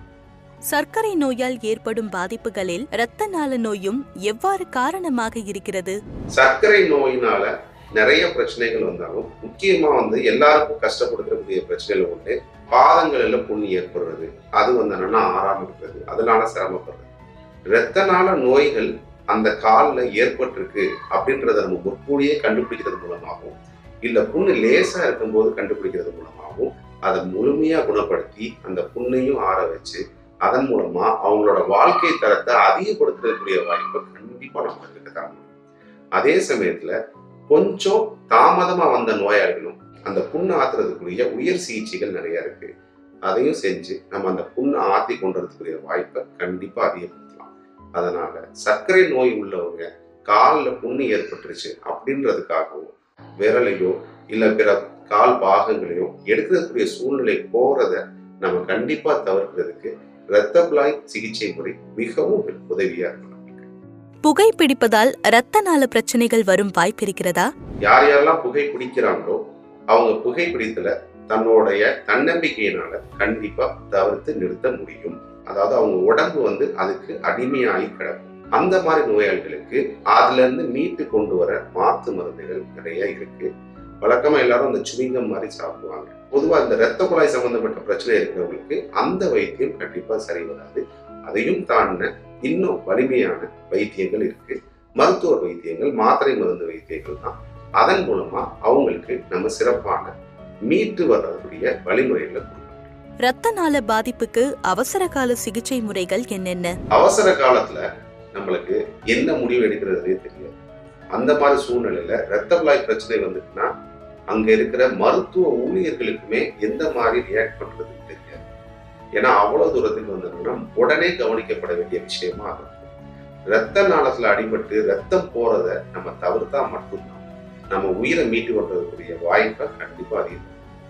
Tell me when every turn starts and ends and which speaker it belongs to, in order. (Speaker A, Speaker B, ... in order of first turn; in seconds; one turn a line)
Speaker A: 0.7-5.9
Speaker B: 6.3-17.1
Speaker B: 17.7-35.5
Speaker B: 36.2-36.9
Speaker B: 37.5-42.7
Speaker B: 43.3-63.7
Speaker A: 64.2-67.5
Speaker B: 67.8-83.5
Speaker B: 84.0-100.1
Speaker B: 100.7-103.0
Speaker A: 103.2-106.7
Speaker B: 106.9-110.5
Speaker B: 111.1-113.7
Speaker B: 114.3-118.4
Speaker B: 119.2-122.9
Speaker B: 123.5-130.7